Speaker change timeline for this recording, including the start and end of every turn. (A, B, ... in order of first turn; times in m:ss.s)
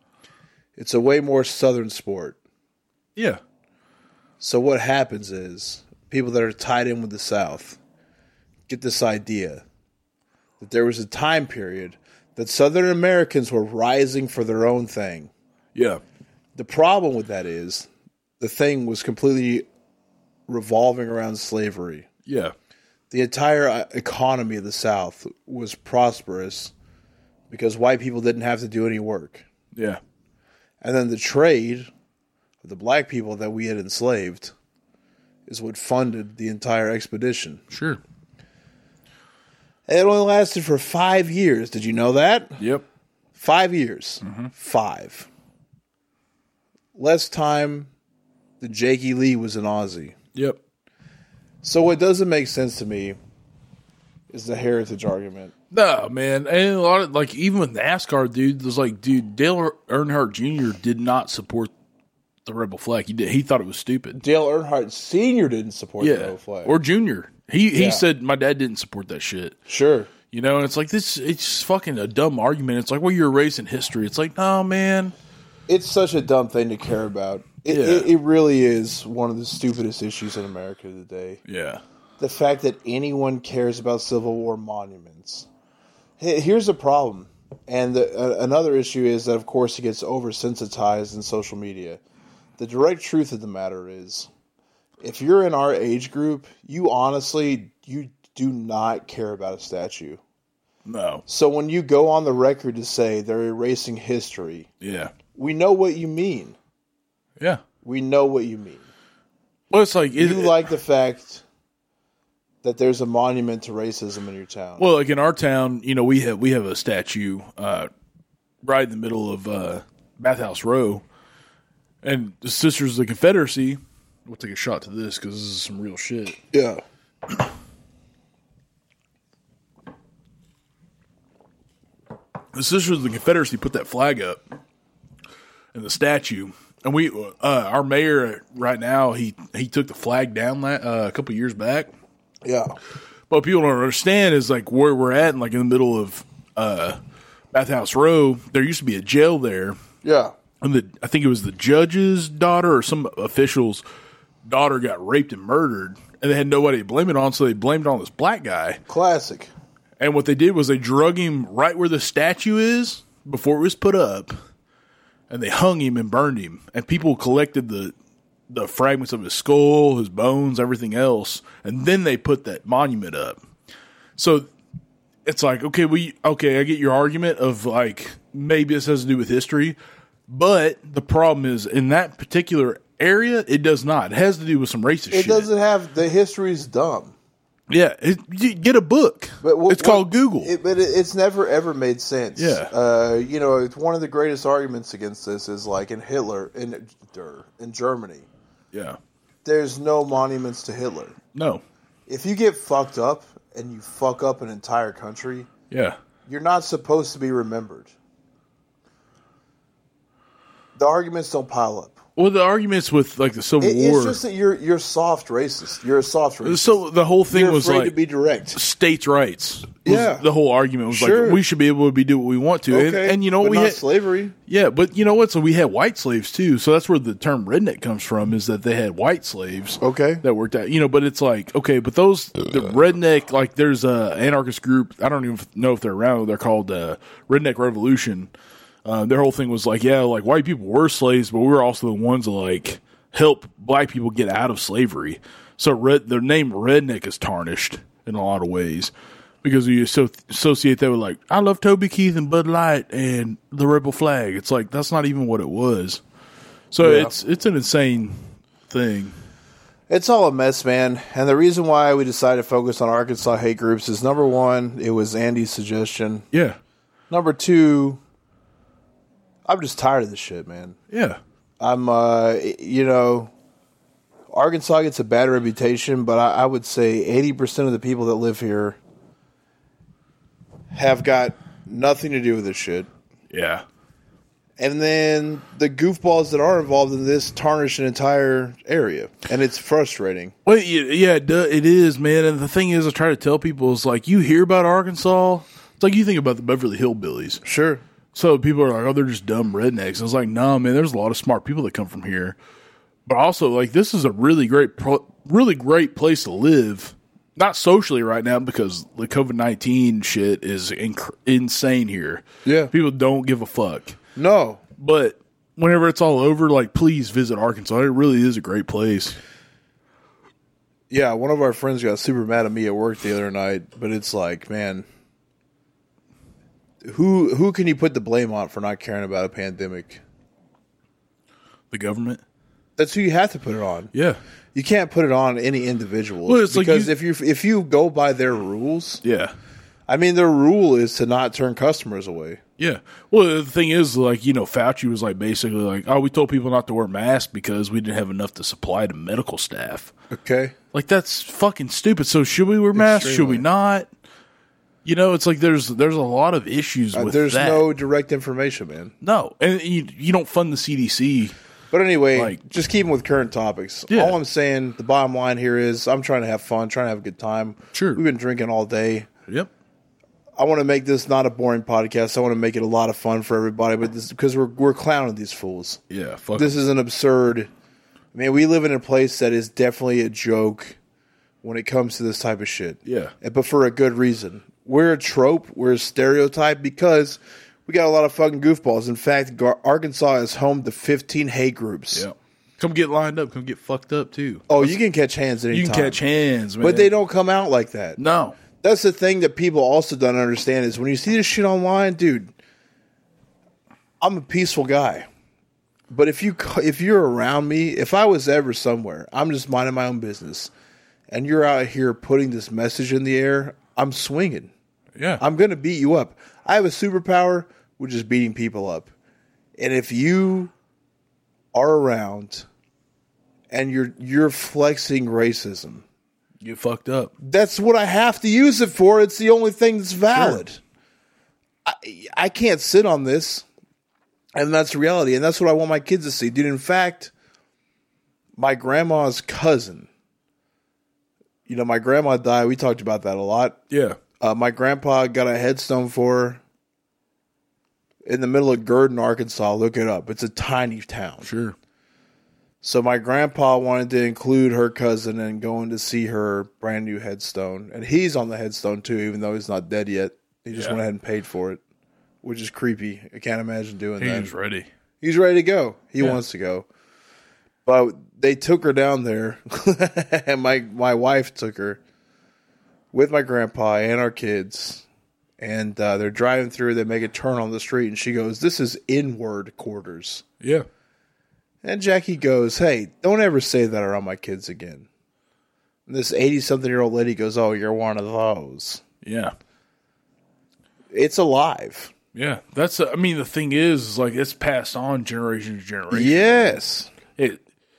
0:00.8-0:02.4 A
0:04.4-0:07.8 A
0:08.7-0:09.6 A
0:10.6-0:15.3 A
0:15.8-0:16.0 B
0:16.6-0:17.9 A
0:18.4-0:19.6 A
0:20.5-0:22.1 A
0:22.2-0:22.5 B
0:23.1-0:26.7 A
0:27.5-0:29.5 A
0:29.8-0:30.0 B
0:30.8-0:31.9 A
0:32.6-0:34.5 A
0:35.5-0:37.6 A
0:37.7-0:38.0 B
0:39.9-0:42.6 A
0:42.6-0:42.8 B
0:43.4-0:45.3 A
0:44.2-0:44.5 B
0:47.0-0:47.9 A
0:48.6-0:50.2 A
0:50.3-0:50.6 B
0:51.6-0:53.2 A
0:54.3-0:55.5 A
0:55.7-1:01.7 B
1:02.4-1:04.2 B
1:04.2-1:06.7 A
1:06.0-1:09.6 B
1:07.8-1:08.0 A
1:09.7-1:10.1 A
1:10.3-1:15.1 B
1:15.7-1:21.4 A
1:17.7-1:18.1 B
1:21.4-1:21.8 B
1:22.2-1:25.5 A
1:26.2-1:32.0 A
1:32.6-1:34.3 A
1:35.0-1:40.2 A
1:40.8-1:41.2 B
1:41.3-1:44.7 A
1:44.8-1:45.1 B
1:45.4-1:46.6 A
1:47.8-1:48.9 A
1:49.7-1:50.6 B
1:50.1-1:51.4 A
1:52.6-1:54.8 A
1:54.8-1:57.9 B
1:58.6-2:01.0 B
2:02.0-2:06.4 B
2:06.5-2:06.8 A
2:12.5-2:14.4 B
2:15.7-2:21.9 B
2:22.4-2:22.8 A
2:23.3-2:27.0 B
2:27.5-2:29.8 B
2:30.0-2:30.3 A
2:30.6-2:33.8 B
2:34.4-2:38.8 B
2:38.9-2:39.5 A
2:40.0-2:44.3 B
2:45.3-2:47.9 B
2:48.5-2:53.4 B
2:54.2-2:54.5 B
2:55.2-2:59.8 B
3:00.3-3:05.5 B
3:05.1-3:07.1 A
3:07.7-3:10.5 B
3:09.4-3:18.3 A
3:12.4-3:12.7 B
3:18.7-3:19.0 B
3:19.4-3:21.2 A
3:21.4-3:21.6 B
3:22.1-3:25.5 A
3:25.7-3:26.0 B
3:26.3-3:27.9 A
3:30.8-3:32.0 A
3:32.2-3:34.2 B
3:33.6-3:36.8 A
3:36.4-3:37.9 B
3:37.3-3:38.6 A
3:38.6-3:43.8 B
3:39.8-3:40.2 A
3:40.9-3:41.4 A
3:42.7-3:44.4 A
3:44.5-3:58.3 B
3:49.8-3:50.2 A
3:58.8-4:16.0 B
4:16.7-4:19.2 B
4:16.8-4:17.1 A
4:19.9-4:26.2 A
4:26.3-4:26.6 B
4:27.1-4:28.0 A
4:29.4-4:30.8 A
4:30.9-4:31.2 B
4:31.6-4:33.3 A
4:34.3-4:38.8 A
4:40.7-4:42.9 A
4:43.3-4:43.6 B
4:44.6-4:50.3 A
4:50.4-4:57.4 B
4:57.4-4:57.8 A
4:58.1-5:02.4 B
5:03.1-5:14.0 B
5:12.4-5:12.7 A
5:14.2-5:14.6 A
5:14.8-5:19.2 B
5:20.9-5:24.9 A
5:26.8-5:30.0 A
5:31.7-5:32.2 B
5:32.8-5:33.9 A
5:33.9-5:34.2 B
5:34.6-5:39.0 A
5:36.2-5:36.9 B
5:39.0-5:39.3 B
5:39.9-5:42.4 A
5:42.6-5:49.9 B
5:50.1-5:50.6 A
5:50.7-5:53.9 B
5:52.7-5:53.4 A
5:54.8-5:57.7 B
5:56.9-5:58.9 A
5:59.0-6:01.3 B
6:01.7-6:09.1 A
6:02.1-6:02.4 B
6:03.9-6:04.2 B
6:07.7-6:08.0 B
6:10.4-6:15.8 A
6:15.9-6:16.5 B
6:16.3-6:17.5 A
6:18.1-6:20.8 A
6:21.4-6:32.1 A
6:22.8-6:23.1 B
6:31.9-6:34.8 B
6:34.5-6:36.0 A
6:35.5-6:36.9 B
6:36.6-6:38.0 A
6:38.0-6:38.4 B
6:38.6-6:42.3 A
6:44.0-6:45.1 A
6:45.9-6:50.5 A
6:51.1-6:54.5 A
6:55.0-6:55.2 B
6:55.2-6:58.9 A
6:59.6-7:00.5 A
7:01.5-7:02.5 A
7:03.5-7:05.8 A
7:06.4-7:07.1 B
7:07.2-7:10.6 A
7:10.1-7:10.4 B
7:11.6-7:13.4 A
7:14.4-7:17.1 A
7:18.4-7:19.9 A
7:21.5-7:23.6 A
7:23.7-7:24.0 B
7:24.2-7:26.4 A
7:28.0-7:31.3 A
7:31.2-7:31.6 B
7:32.6-7:41.6 A
7:42.2-7:44.3 A
7:44.0-7:44.7 B
7:45.0-7:46.7 A
7:47.7-7:51.8 A
7:52.9-7:54.8 A
7:55.4-8:00.2 A
8:01.6-8:04.9 A
8:05.9-8:08.8 A
8:09.0-8:09.3 B
8:10.9-8:11.9 A
8:12.2-8:16.6 B
8:15.9-8:16.9 A
8:17.2-8:17.4 B